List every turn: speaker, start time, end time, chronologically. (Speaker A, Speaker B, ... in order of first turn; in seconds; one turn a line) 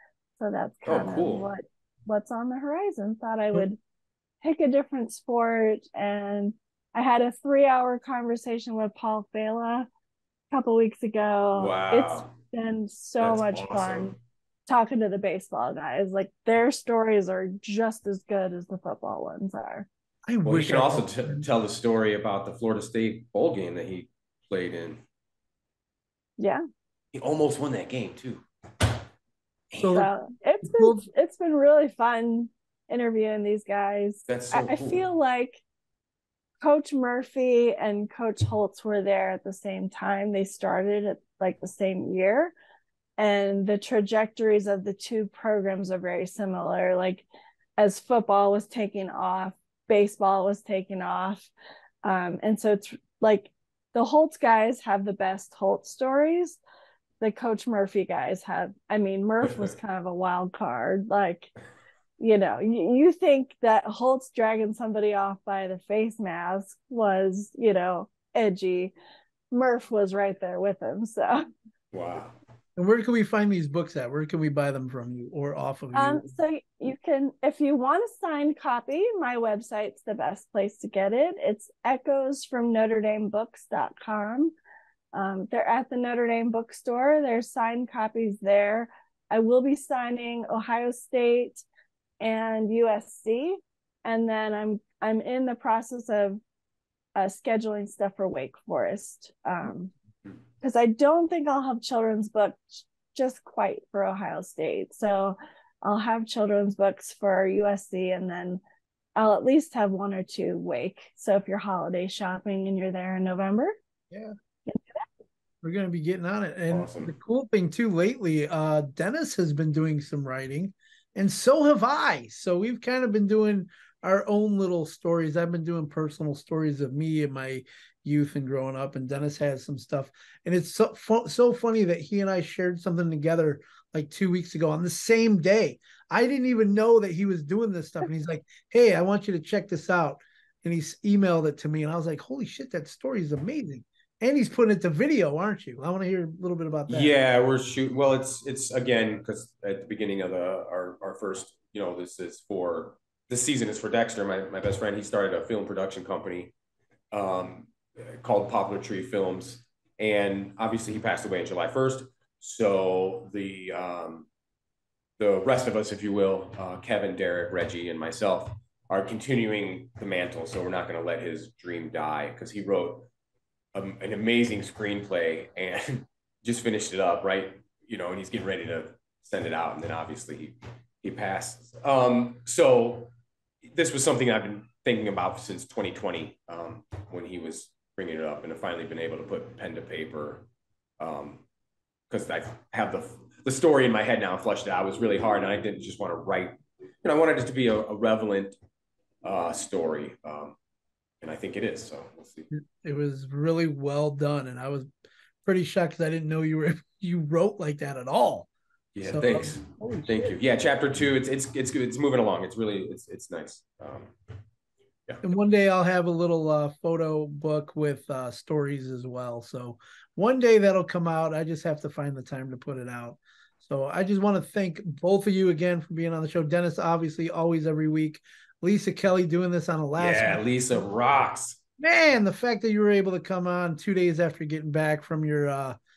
Speaker A: 0.4-3.8
Speaker B: 0.8-1.5
Speaker A: 4.4-9.9
Speaker A: 10.5-14.1
Speaker B: 11.6-12.3
Speaker B: 13.2-14.1
Speaker A: 14.7-19.9
Speaker C: 20.3-21.4
Speaker B: 20.4-25.0
Speaker B: 27.1-28.4
Speaker B: 29.7-29.9
Speaker C: 29.8-30.1
Speaker A: 29.9-35.6
Speaker C: 30.6-31.0
Speaker B: 34.3-35.1
Speaker A: 36.6-42.5
Speaker A: 43.2-47.2
Speaker A: 47.8-51.5
Speaker A: 52.0-56.6
Speaker A: 57.2-61.5
Speaker A: 62.2-68.9
Speaker A: 69.5-71.4
Speaker B: 71.9-72.3
Speaker C: 72.8-76.3
Speaker A: 75.9-84.5
Speaker A: 85.1-91.6
Speaker A: 92.2-96.4
Speaker A: 97.2-99.9
Speaker A: 100.6-108.6
Speaker A: 109.2-113.8
Speaker A: 114.7-115.1
Speaker C: 115.6-147.2
Speaker B: 116.7-117.1
Speaker B: 146.9-156.5
Speaker B: 157.1-164.3
Speaker B: 165.2-173.1
Speaker B: 173.7-183.1
Speaker B: 183.7-190.5
Speaker B: 191.0-191.4
Speaker B: 192.1-198.6
Speaker B: 199.2-200.5
Speaker B: 201.2-202.5
Speaker C: 202.5-204.9
Speaker C: 205.4-208.5
Speaker B: 208.9-214.1
Speaker C: 209.0-210.3
Speaker C: 215.2-230.4
Speaker B: 230.0-231.6
Speaker C: 231.8-235.8